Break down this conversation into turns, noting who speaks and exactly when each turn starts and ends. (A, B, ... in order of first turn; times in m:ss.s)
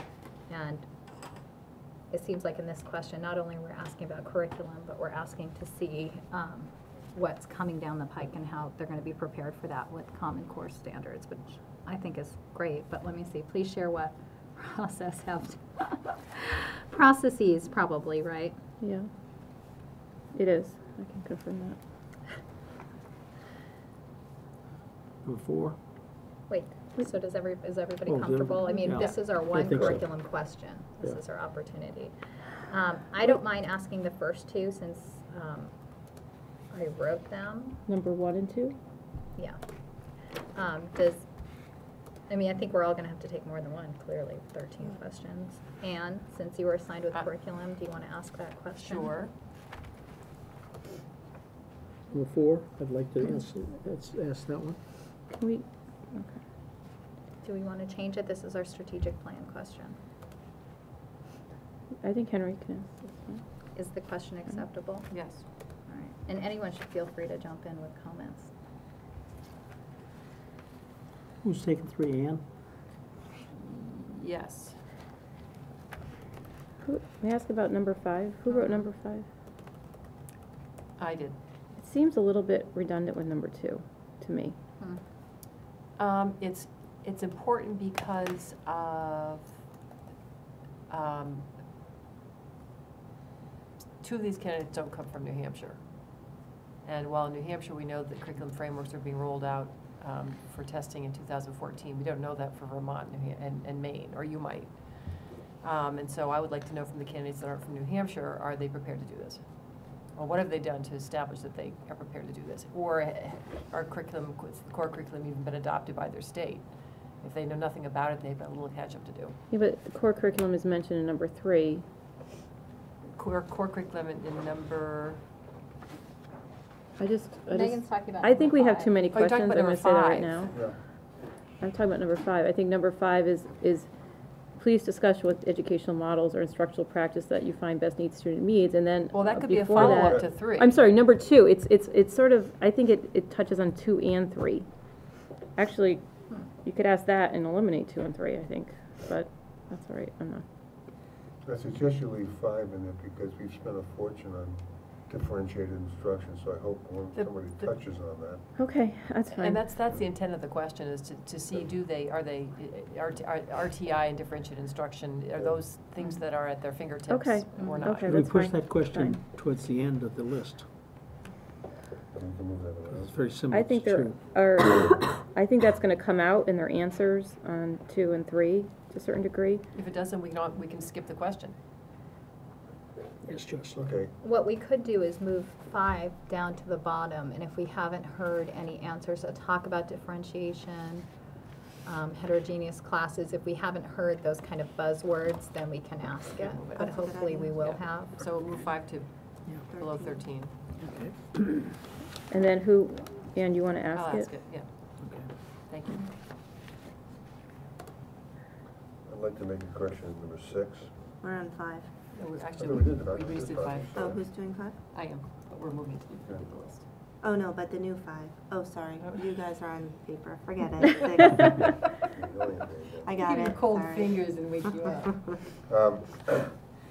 0:00.5-0:00.8 A
0:02.1-0:18.6 A
0:20.3-0:21.8 B
0:25.2-0:25.8 C
0:26.5-0:32.1 A
0:28.0-0:30.5 C
0:32.7-0:35.7 A
0:36.7-0:37.8 A
0:37.9-0:38.8 B
0:40.5-0:41.2 A
0:42.3-0:49.2 A
0:48.8-0:49.3 D
0:52.1-0:54.8 C
0:55.3-0:56.4 B
0:57.4-1:00.0 A
1:02.0-1:03.4 B
1:03.7-1:05.1 A
1:05.1-1:05.4 D
1:05.9-1:08.5 A
1:11.4-1:12.4 C
1:13.5-1:14.8 D
1:16.8-1:19.2 B
1:21.0-1:21.4 D
1:21.8-1:24.6 B
1:26.0-1:29.5 D
1:30.9-1:31.4 D
1:34.0-1:35.8 D
1:36.8-1:49.4 D
1:50.1-1:56.6 D
1:57.2-1:59.4 D
1:59.5-2:01.8 B
2:03.1-2:05.2 D
2:07.0-2:10.6 B
2:07.5-2:09.0 A
2:09.1-2:10.4 D
2:11.6-2:13.9 B
2:14.6-2:24.7 B
2:19.1-2:20.7 D
2:19.7-2:20.3 E
2:25.6-2:26.0 B
2:26.6-2:30.4 B
2:31.4-2:38.4 E
2:37.2-2:37.7 D
2:38.6-2:39.6 B
2:39.3-2:48.2 D
2:47.1-2:49.2 B
2:47.6-2:47.8 A
2:48.1-2:50.7 C
2:52.1-2:53.1 E
2:52.9-2:54.2 C
2:53.5-2:59.6 B
2:59.7-3:01.6 D
3:03.2-3:03.8 C
3:03.7-3:04.1 E
3:04.2-3:11.1 A
3:11.8-3:18.2 A
3:16.4-3:19.1 D
3:16.8-3:17.5 F
3:19.6-3:20.5 D
3:19.7-3:20.2 F
3:20.8-3:21.7 C
3:22.3-3:24.3 B
3:23.9-3:24.6 D
3:25.0-3:25.3 C
3:25.7-3:26.1 D
3:29.1-3:30.9 E
3:31.2-3:31.9 F
3:32.1-3:34.2 D
3:32.6-3:34.2 E
3:33.9-3:34.8 F
3:34.9-3:36.8 D
3:37.2-3:41.6 F
3:42.1-3:43.2 E
3:43.0-3:44.2 F
3:43.2-3:45.5 D
3:45.7-3:46.5 E